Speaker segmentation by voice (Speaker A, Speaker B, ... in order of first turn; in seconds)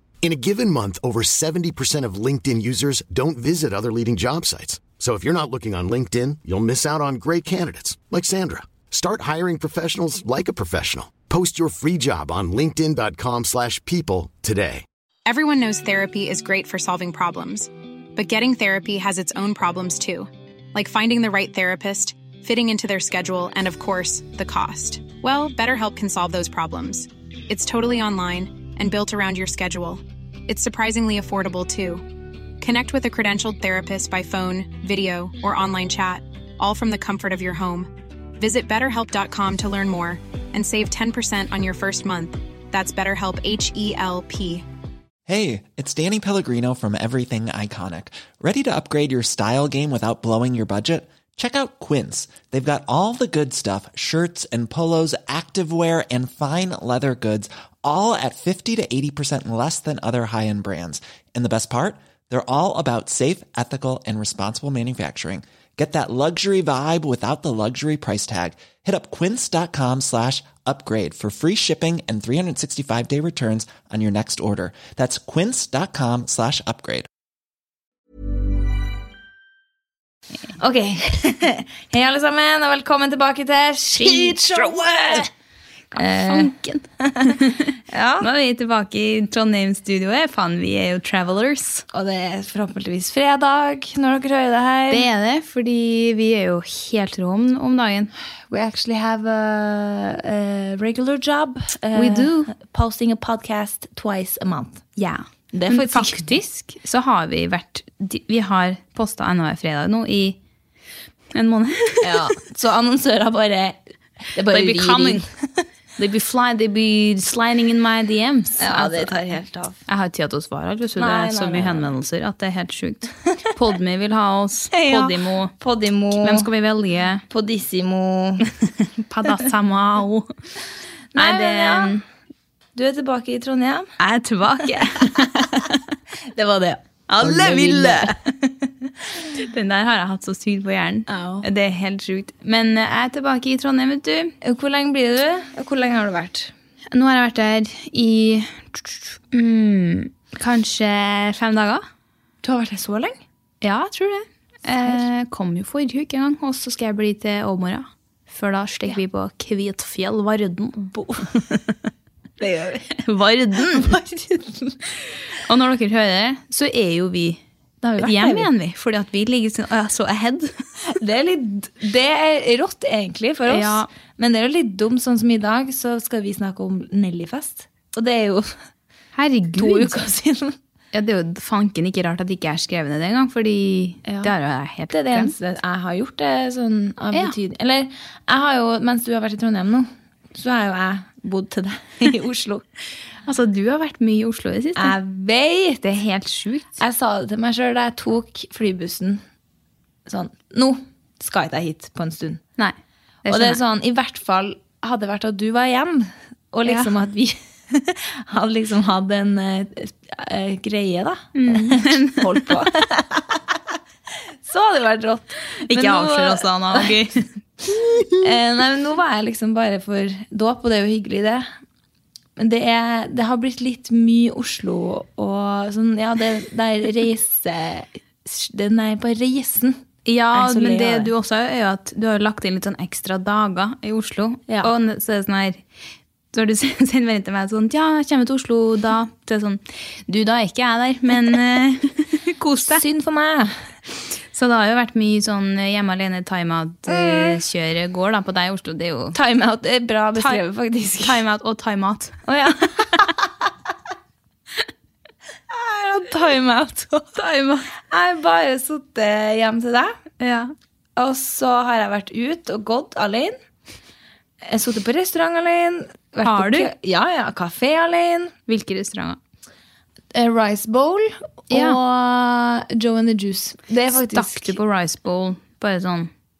Speaker A: 0.2-14.8
Speaker B: 15.2-32.1, 32.6-44.6
Speaker C: 45.3-77.1
Speaker D: 80.6-85.3, 85.9-87.4, 87.9-88.3, 91.9-95.1, 98.5-104.8, 105.5-106.4, 112.0-113.8, 114.3-115.3, 118.6-119.8, 121.0-121.9, 124.7-126.5, 127.3-128.4, 131.1-131.9, 132.7-133.9, 136.3-138.2, 141.1-141.4, 144.4-146.5, 152.4-153.2, 160.9-161.4, 162.4-162.9, 163.6-164.8, 167.8-168.5, 171.0-178.6, 179.6-180.6, 184.1-184.3, 184.9-192.7, 194.8-195.8, 196.8-199.2, 200.1-202.4, 203.3-213.4, 214.4-217.0, 218.2-221.5, 222.4-229.8, 230.3-231.1, 242.7-243.5, 246.9-247.4, 249.1-251.2, 252.2-253.1, 255.5-257.2, 257.9-260.0, 260.9-263.4, 264.4-268.3, 270.1-274.6
Speaker E: 84.0-85.3, 86.0-91.8, 94.9-98.1, 101.9-102.5, 105.0-110.4, 111.3-112.2, 114.5-115.2, 116.0-119.2, 119.9-125.5, 126.1-127.2, 128.6-130.3, 131.1-132.0, 134.0-135.7, 137.1-138.1, 139.4-144.3, 146.9-151.8, 153.6-161.7, 163.0-163.9, 165.4-167.4, 168.0-170.5, 173.5-173.9, 179.2-180.0, 180.9-185.3, 193.2-194.9, 195.8-196.8, 202.6-203.6, 211.3-212.5, 215.7-218.2, 230.0-235.6, 236.3-242.8, 244.3-249.2, 251.0-252.2, 257.2-257.7, 260.2-260.5, 266.2-266.7, 268.5-269.2, 271.5-271.8, 273.9-276.1